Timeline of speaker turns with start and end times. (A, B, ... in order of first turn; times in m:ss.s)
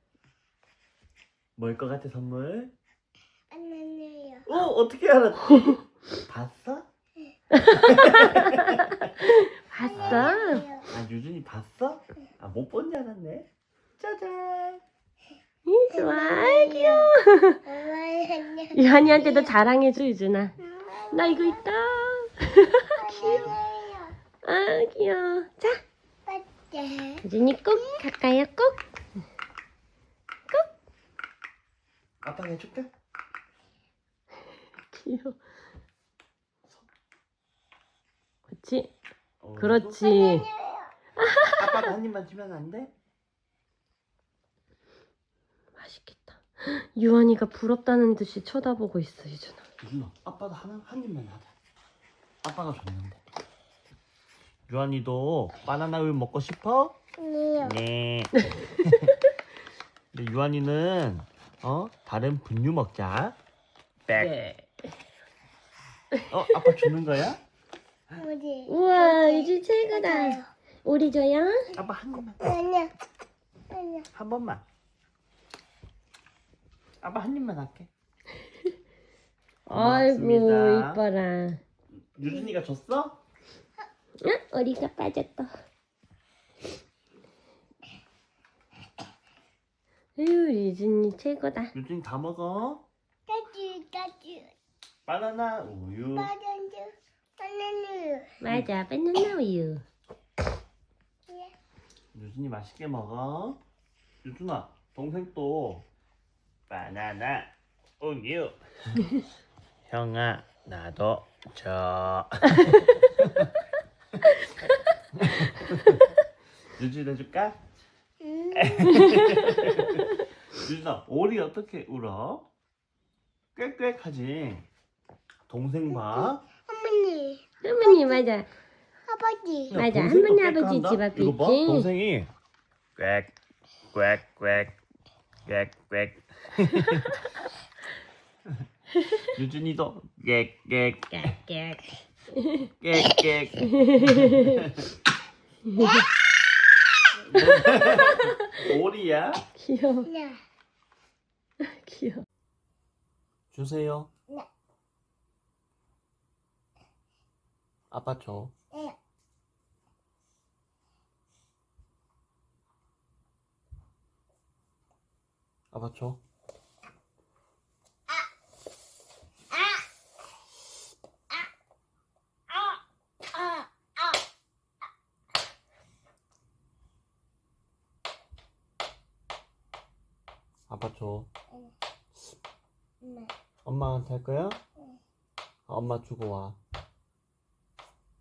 0:01.6-0:02.7 A
0:03.5-0:04.5 B
0:04.4-0:06.9 A
0:07.5-0:10.6 C
0:07.8-0:09.0 A
0:09.8-0:10.9 B
0:09.9-0:14.8 A
0:15.6-0:17.6 C
0:15.9-0:17.1 B
0:17.6-0:19.6 B
0:18.7-0:20.6 C
0:20.6-0:21.6 B
0:21.1-0:23.5 C
0:23.0-0:24.2 B
0:23.2-0:23.6 A
0:24.4-0:25.8 C
0:26.2-0:28.0 B
0:27.2-0:28.8 C
0:32.2-0:32.9 A
0:34.9-0:35.4 C
0:38.5-0:38.9 C
0:39.4-0:40.0 A
0:39.6-0:40.5 C
0:40.0-0:40.9 B
0:41.2-0:41.9 C
0:41.5-0:42.9 A
0:45.8-0:49.6 C
0:49.8-0:51.5 A
0:52.4-0:53.2 A
0:54.7-0:57.0 A
0:57.2-0:57.8 B
0:57.6-0:59.1 A
0:58.4-0:59.2 C
1:00.1-1:03.4 A
1:04.1-1:04.4 A
1:04.1-1:04.7 C
1:06.2-1:06.9 C
1:06.3-1:07.4 A
1:08.1-1:10.5 B
1:08.7-1:11.6 C
1:11.7-1:12.4 A
1:12.4-1:12.9 B
1:13.7-1:14.1 B
1:14.1-1:14.6 A
1:17.0-1:17.9 A
1:19.7-1:21.6 C
1:19.7-1:21.0 A
1:22.0-1:23.2 A
1:24.2-1:25.5 C
1:30.2-1:31.7 C
1:31.7-1:32.8 A
1:33.3-1:34.5 B
1:35.0-1:36.3 A
1:36.2-1:38.4 B
1:38.4-1:39.8 C
1:41.3-1:41.5 B
1:42.1-1:43.6 A
1:44.2-1:45.9 A
1:46.7-1:49.0 A
1:49.8-1:53.5 A
1:55.2-1:56.0 A
1:56.7-1:57.6 A
1:58.2-1:59.0 B
1:58.6-2:02.5 A
1:58.8-2:00.0 C
2:03.5-2:04.7 A
2:05.5-2:06.4 A
2:06.0-2:08.2 B
2:07.6-2:08.5 C
2:09.0-2:09.8 B
2:09.7-2:12.3 A
2:09.7-2:11.9 C
2:13.0-2:13.3 A
2:13.9-2:14.8 A
2:15.4-2:17.2 A
2:19.2-2:21.3 A
2:21.1-2:24.8 C
2:22.8-2:24.9 A
2:25.6-2:26.1 C
2:25.8-2:26.0 B
2:27.2-2:29.4 A
2:27.4-2:28.5 C
2:29.6-2:30.1 C
2:30.1-2:30.4 B
2:31.6-2:32.2 C
2:33.5-2:34.1 A
2:37.9-2:38.5 A
2:45.7-2:46.2 A
3:00.7-3:01.3 A
3:03.0-3:03.3 B
3:03.6-3:04.6 A
3:05.7-3:06.6 A